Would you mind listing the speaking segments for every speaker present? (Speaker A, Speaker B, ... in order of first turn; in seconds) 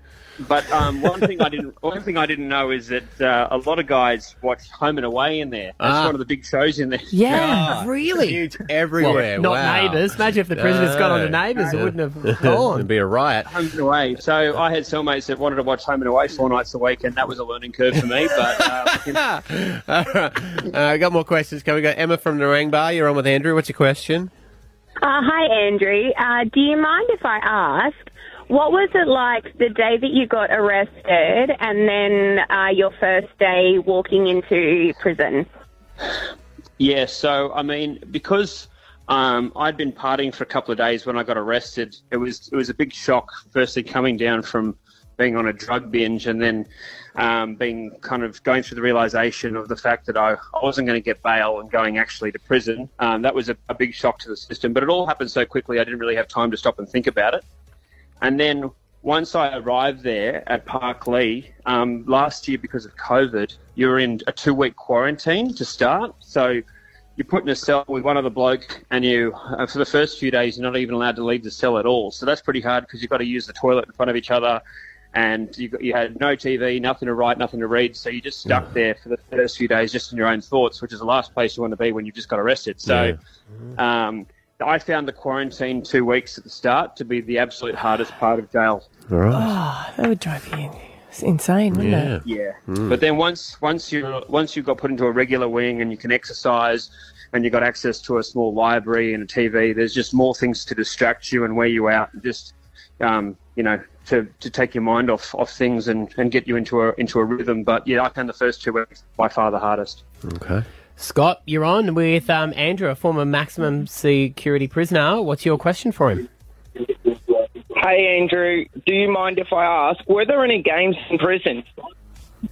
Speaker A: 0.4-7.6, 13.5-19.2, 36.8-57.4, 58.2-66.6, 67.2-74.6, 75.1-83.2, 83.8-88.9, 92.2-110.0
Speaker B: 5.8-6.2, 7.3-13.5, 18.5-24.3, 82.8-83.2, 89.1-89.5, 91.7-93.0, 110.2-110.7
Speaker C: 7.1-8.3, 89.3-92.2
Speaker D: 7.6-8.4, 9.0-12.9, 111.0-116.3
Speaker E: 25.0-35.5
Speaker F: 117.8-121.7